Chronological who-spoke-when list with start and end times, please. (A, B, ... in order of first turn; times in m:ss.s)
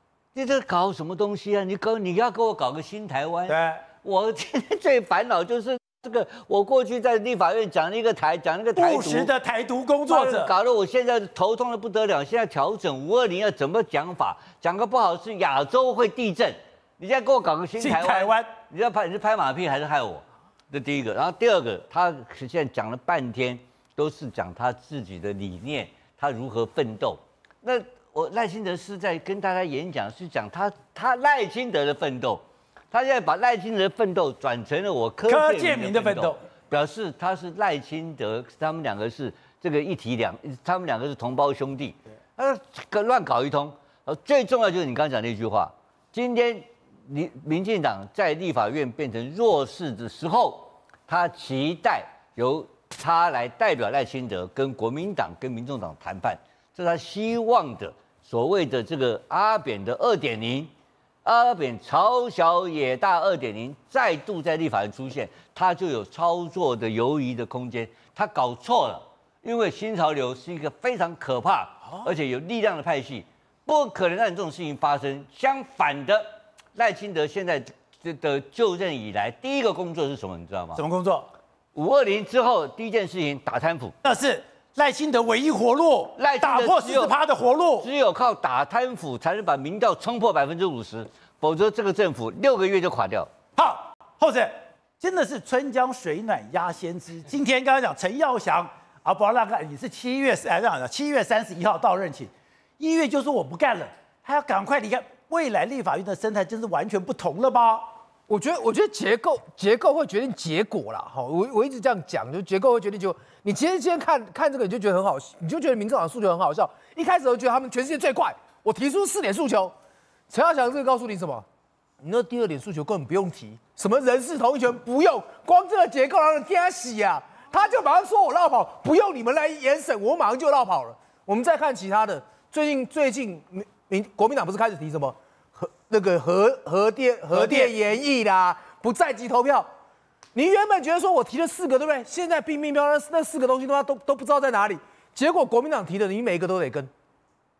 0:00.3-0:09.3 A
0:03.5-0:03.8 B
0:08.7-0:10.5 B
0:10.1-1:00.7 A
0:17.8-0:18.5 B
0:35.3-0:36.4 B
1:01.2-1:20.8 A
1:20.8-1:21.3 B
1:21.7-1:23.9 A
1:24.0-1:27.9 B
1:26.2-1:27.1 A
1:27.8-1:33.3 A
1:33.6-1:47.9 B
1:48.3-1:59.7 C
2:00.3-2:01.4 C
2:02.0-2:19.7 C
2:17.3-2:17.7 B
2:20.3-2:26.9 C